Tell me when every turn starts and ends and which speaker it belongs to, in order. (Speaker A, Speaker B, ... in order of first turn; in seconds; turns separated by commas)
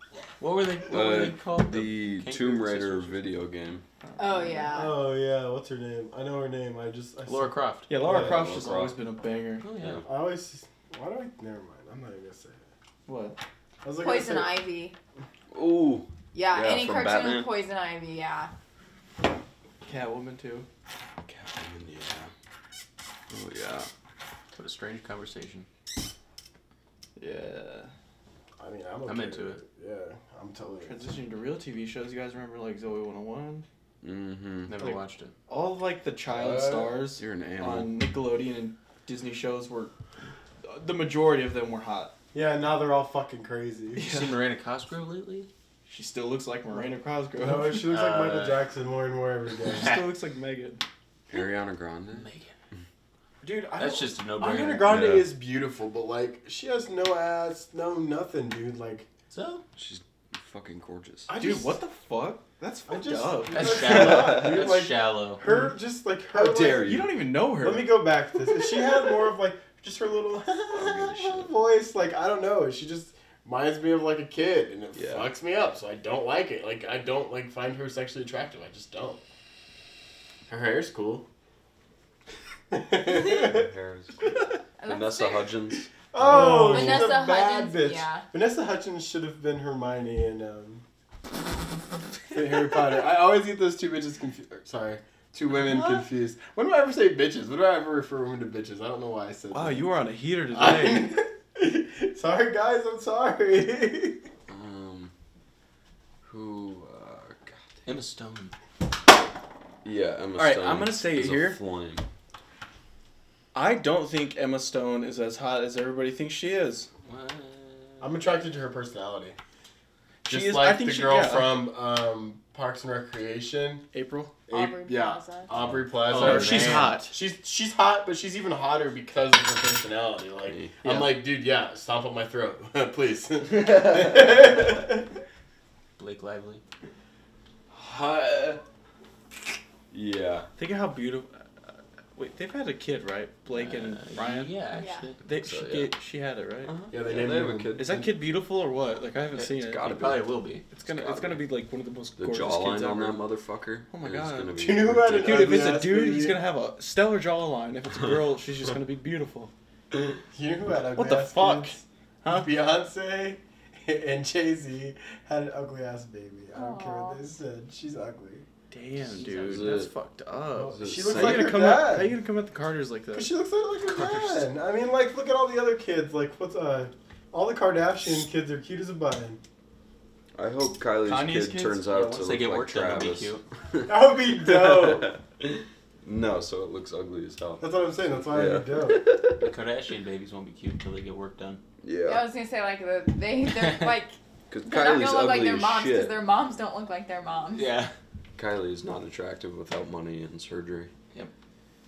Speaker A: 0.4-3.2, Speaker B: 0.9-3.8, Speaker C: 4.2-4.8, Speaker D: 4.2-5.0, Speaker E: 4.7-8.5, Speaker A: 7.3-7.9, Speaker C: 7.9-9.7, Speaker B: 8.0-9.0, Speaker A: 9.6-10.1, Speaker B: 9.8-10.1, Speaker E: 10.1-12.7, Speaker C: 13.1-13.4, Speaker E: 13.8-14.6, Speaker D: 14.0-15.0, Speaker B: 15.5-17.5, Speaker D: 16.3-18.5, Speaker C: 19.8-20.7, Speaker B: 21.2-22.3, Speaker B: 23.3-23.9, Speaker A: 24.5-25.7, Speaker C: 27.2-27.9, Speaker E: 28.6-31.1, Speaker A: 29.1-29.6, Speaker C: 30.8-33.7, Speaker B: 34.0-34.8, Speaker A: 34.7-35.3, Speaker C: 34.8-39.9, Speaker E: 36.3-37.0, Speaker B: 37.1-38.1, Speaker C: 40.6-42.1, Speaker E: 42.3-44.2, Speaker C: 44.0-44.3, Speaker A: 44.0-45.5, Speaker C: 45.9-47.9, Speaker E: 47.4-50.0, Speaker A: 47.9-48.6, Speaker C: 49.8-50.8, Speaker B: 51.3-52.3, Speaker A: 52.1-52.5, Speaker E: 53.4-59.1, Speaker A: 53.7-55.0, Speaker B: 54.8-55.3, Speaker A: 59.3-59.6, Speaker B: 59.8-61.4, Speaker C: 61.3-64.1, Speaker E: 61.4-61.7, Speaker E: 62.9-79.2, Speaker A: 63.5-65.4, Speaker B: 63.8-64.6, Speaker C: 66.4-67.9, Speaker B: 66.8-67.1, Speaker B: 70.7-71.5, Speaker B: 75.0-75.3, Speaker E: 80.5-81.3, Speaker E: 82.7-83.7, Speaker B: 83.1-87.1, Speaker D: 84.8-85.5, Speaker E: 86.1-90.8, Speaker C: 86.3-87.0, Speaker D: 86.6-88.3, Speaker E: 92.3-99.9, Speaker C: 95.6-96.0, Speaker C: 99.5-101.2, Speaker E: 100.5-104.2, Speaker B: 104.5-105.1, Speaker B: 106.2-107.6, Speaker A: 107.9-108.5, Speaker B: 109.8-112.0, Speaker C: 110.3-111.6, Speaker C: 113.5-116.9, Speaker A: 117.0-118.2, Speaker E: 118.0-119.4, Speaker C: 120.2-121.6, Speaker E: 120.3-123.8, Speaker C: 123.9-124.3, Speaker E: 124.5-135.1, Speaker D: 124.5-125.5, Speaker B: 125.5-125.8, Speaker A: 126.1-127.0, Speaker C: 126.1-127.2, Speaker B: 130.5-131.0, Speaker A: 136.0-136.6, Speaker B: 137.7-138.6, Speaker B: 139.9-140.5, Speaker C: 140.6-144.6, Speaker A: 143.5-145.2, Speaker D: 144.8-145.1, Speaker C: 145.2-146.8, Speaker B: 145.3-146.0, Speaker B: 146.7-148.1, Speaker E: 146.9-147.8, Speaker C: 147.8-149.9, Speaker A: 149.4-150.7, Speaker B: 149.4-151.5, Speaker C: 150.7-153.3, Speaker B: 152.2-155.7, Speaker C: 153.9-159.5, Speaker E: 154.6-156.4, Speaker E: 160.3-168.5, Speaker C: 161.0-162.5, Speaker D: 166.5-167.2, Speaker C: 168.7-174.5, Speaker B: 169.1-169.9, Speaker A: 169.2-169.6, Speaker E: 170.6-172.2, Speaker B: 170.8-171.8, Speaker E: 173.1-179.4, Speaker B: 180.3-187.7, Speaker C: 181.0-181.9, Speaker A: 181.9-183.4, Speaker E: 183.9-185.2, Speaker E: 187.6-189.1, Speaker B: 188.2-189.4, Speaker A: 189.4-191.6, Speaker B: 191.8-192.3, Speaker D: 192.0-197.7, Speaker A: 193.6-193.9, Speaker B: 194.5-196.2, Speaker A: 197.5-197.9, Speaker B: 198.4-200.9